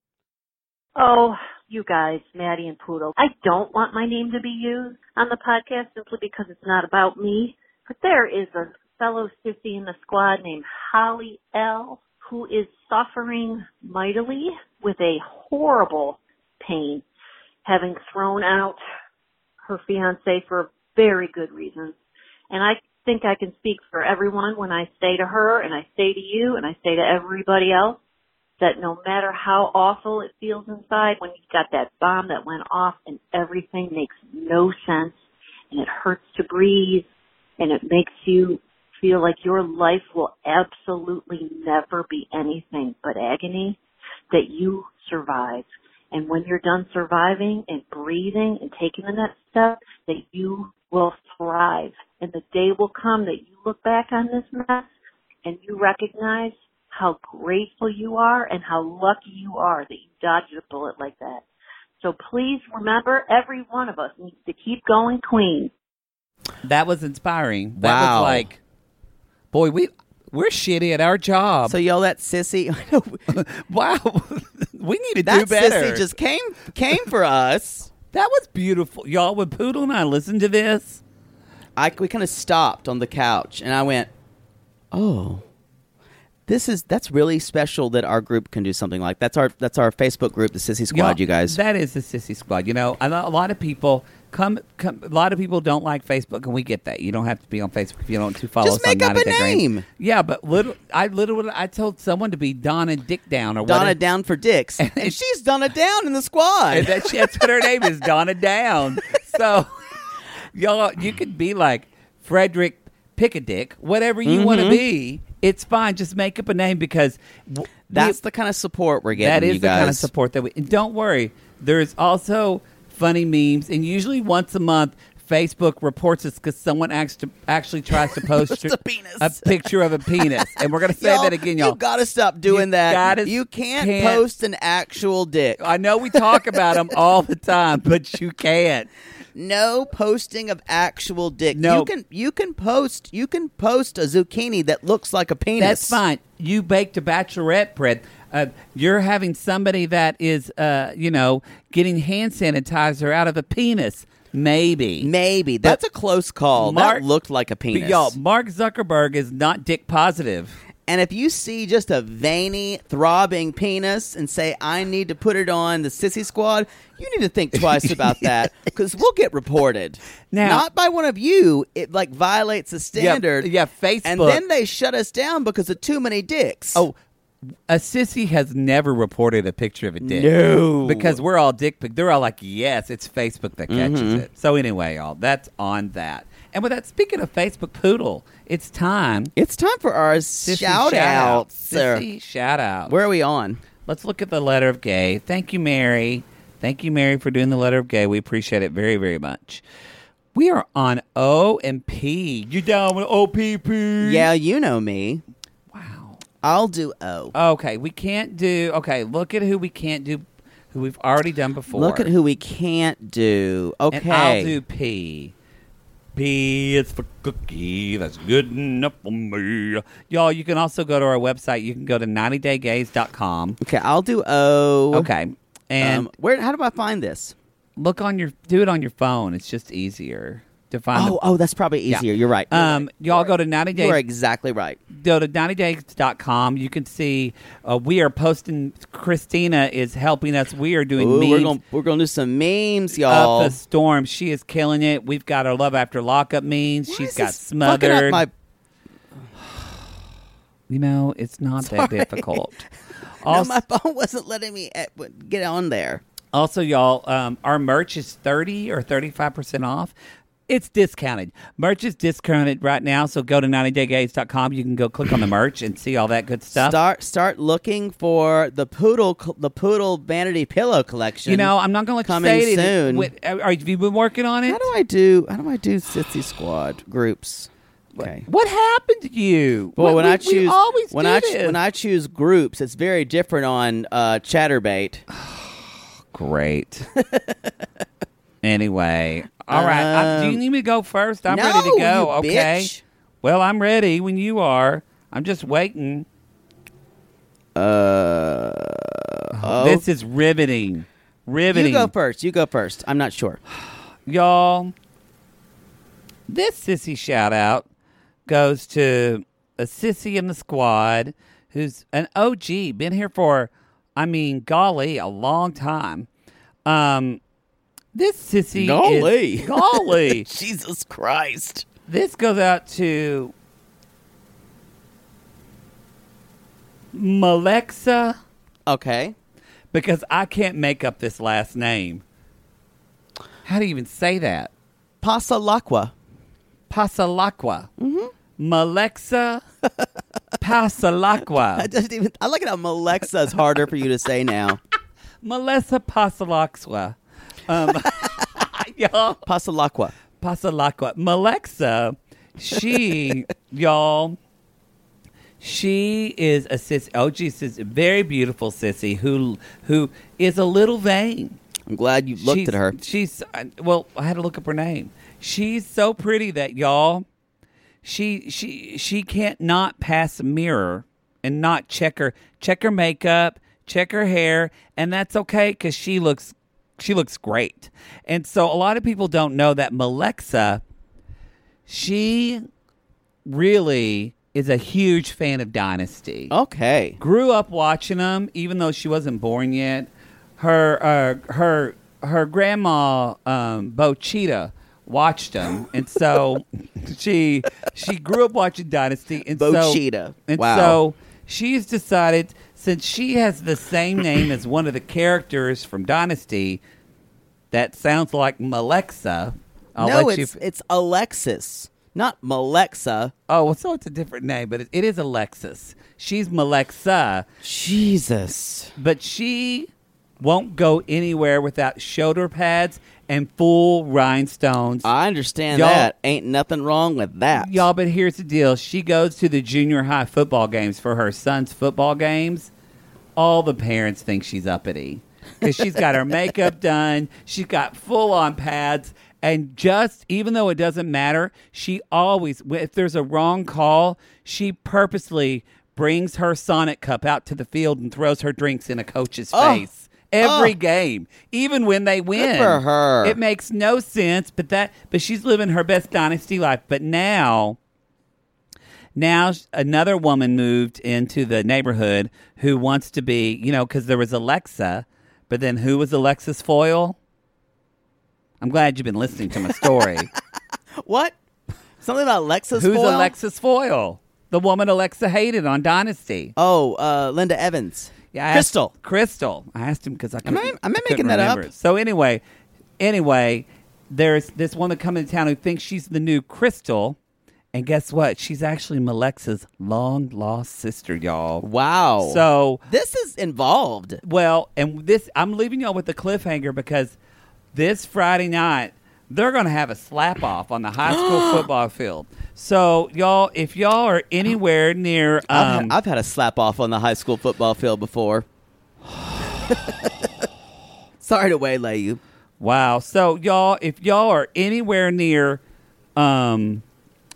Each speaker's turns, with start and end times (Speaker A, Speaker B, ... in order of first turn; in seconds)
Speaker A: 1.0-17.0, 17.6-18.8, 19.6-22.0, 22.5-28.0, 28.6-35.2, 35.7-37.0, 37.6-43.8, 44.3-54.9, 55.5-61.4, 62.0-65.7
Speaker B: 66.6-68.6, 69.5-71.8, 73.3-76.1, 78.1-81.0, 90.9-104.0, 104.8-105.2, 106.7-109.7, 110.5-118.2, 119.1-131.8, 132.5-134.2, 135.6-138.9, 141.5-141.9, 145.6-155.1, 156.6-157.1, 157.7-160.6, 167.6-168.2, 170.3-170.7, 172.9-174.4, 177.7-189.3, 190.4-192.9, 193.9-199.6, 200.3-204.3, 205.7-206.2, 207.3-212.1, 213.9-215.3, 216.2-223.6, 224.9-226.1, 227.8-231.2, 231.9-234.0, 234.9-241.6, 243.1-248.3, 250.7-252.6, 253.2-253.6, 256.3-259.9, 260.5-266.8, 271.3-274.7, 277.9-281.6, 285.1-286.9, 288.4-292.7, 293.2-296.1, 299.4-301.9, 304.1-304.7, 306.3-307.7, 308.3-316.1, 316.6-317.2, 317.9-320.3, 321.9-323.3, 326.9-328.2, 329.7-332.0, 333.4-334.5, 336.7-337.7, 338.4-339.4, 340.4-341.7, 345.2-349.2, 350.2-354.2, 355.4-361.4, 362.2-367.1, 367.8-380.6, 381.7-382.4, 383.2-386.3, 387.0-406.6, 407.5-410.4, 413.3-417.3, 418.8-424.9, 425.5-425.9, 427.3-432.5, 433.2-457.6, 458.9-467.0, 468.4-470.1, 472.6-476.3, 478.1-482.2, 482.8-487.0, 487.5-491.4, 492.0-492.6, 494.0-497.0, 497.5-505.8, 512.4-515.4, 516.0-516.6
Speaker C: 67.8-68.5, 71.7-73.2, 75.2-77.9, 81.8-84.1, 84.9-85.4, 86.5-91.6, 98.6-99.8, 103.6-107.5, 114.2-114.8, 117.9-120.1, 128.1-129.6, 131.0-135.6, 136.1-136.7, 139.4-146.0, 155.0-158.2, 160.9-173.5, 174.0-176.9, 180.0-181.2, 183.7-184.3, 189.4-192.0, 192.9-193.6, 204.0-205.2, 206.4-207.3, 211.7-214.6, 223.6-225.1, 225.8-227.3, 230.9-234.8, 241.0-243.6, 246.9-248.3, 251.6-252.4, 253.2-256.0, 266.5-271.5, 272.0-273.1, 274.5-278.3, 279.8-285.0, 289.5-290.4, 291.3-292.8, 297.6-299.8, 301.5-303.4, 318.6-321.6, 328.7-329.2, 335.0-335.9, 337.8-338.1, 341.6-344.6, 349.3-349.9, 361.7-362.8, 386.3-387.0, 399.4-400.8, 409.8-413.1, 417.4-418.8, 424.9-427.7, 449.3-449.6, 450.2-450.5, 452.2-453.2, 470.8-471.1, 471.8-473.1, 476.4-478.7, 480.2-481.5, 491.4-494.0, 500.9-501.5, 505.3-508.3, 509.5-509.9, 511.0-512.0